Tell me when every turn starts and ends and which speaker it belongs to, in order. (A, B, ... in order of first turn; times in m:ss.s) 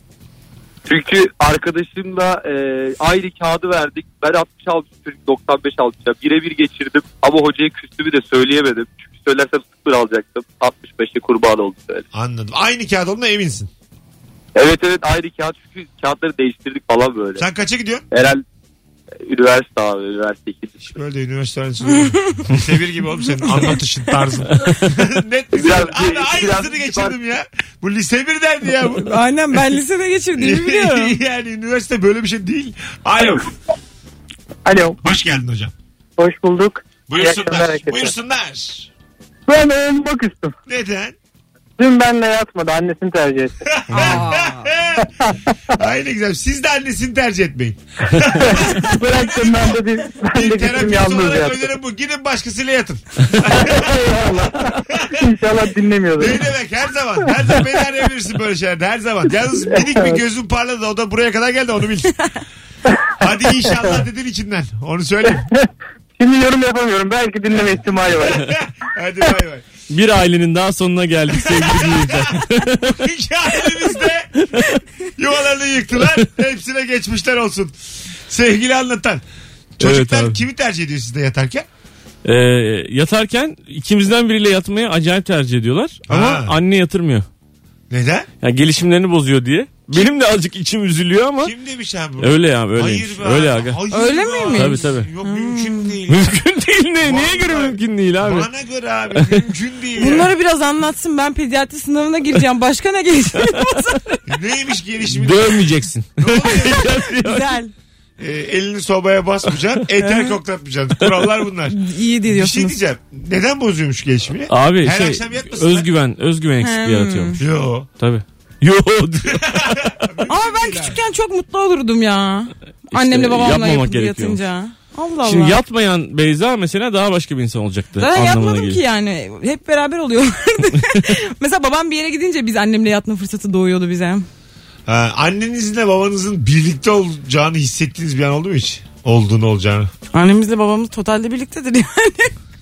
0:00.9-0:12.1 A
0:12.1-0:13.7 B
0:14.6-0:17.4 A
0:17.4-0:18.1 B
0:18.1-0:18.4 A
0:19.3-0:20.8 A
0:20.9-0:29.1 B
0:26.0-0:26.6 C
0:29.0-0:31.2 D
0:30.4-0:33.5 B
0:34.6-0:35.0 C
0:35.0-0:35.7 B
0:36.2-0:38.1 C
0:37.1-0:38.9 B
0:39.5-0:40.5 C
0:40.7-0:41.2 B
0:41.8-0:44.4 C
0:43.6-0:45.1 B
0:44.0-0:44.5 D
0:45.0-0:45.3 C
0:45.7-0:54.1 B
0:48.4-0:51.7 C
0:53.4-0:56.4 C
0:54.9-0:55.2 B
0:56.2-1:02.1 B
0:59.6-1:00.2 C
1:03.2-1:05.4 B
1:03.6-1:04.0 C
1:06.2-1:08.4 C
1:08.0-1:09.6 B
1:09.9-1:12.9 E
1:11.3-1:14.4 B
1:15.2-1:19.2 B
1:19.8-1:21.7 B
1:19.8-1:20.4 E
1:22.2-1:27.3 E
1:26.1-1:26.6 B
1:27.9-1:28.3 B
1:28.4-1:31.5 E
1:31.4-1:36.3 B
1:32.2-1:33.8 E
1:33.9-1:35.9 D
1:34.5-1:35.1 E
1:36.1-1:38.5 E
1:37.0-1:40.3 B
1:40.0-1:44.0 D
1:44.3-1:45.6 B
1:45.1-1:47.6 E
1:46.2-1:47.0 B
1:46.5-1:47.7 D
1:48.2-1:51.8 B
1:50.0-1:50.4 D
1:51.7-1:52.8 D
1:52.3-1:55.9 B
1:54.5-1:57.4 E
1:56.6-1:57.4 D
1:57.4-1:57.9 B
1:58.0-1:59.9 E
1:59.3-2:01.0 B
2:00.3-2:05.6 D
2:02.9-2:04.4 E
2:05.2-2:08.8 E
2:08.0-2:14.3 D
2:14.9-2:19.9 B
2:20.1-2:22.3 D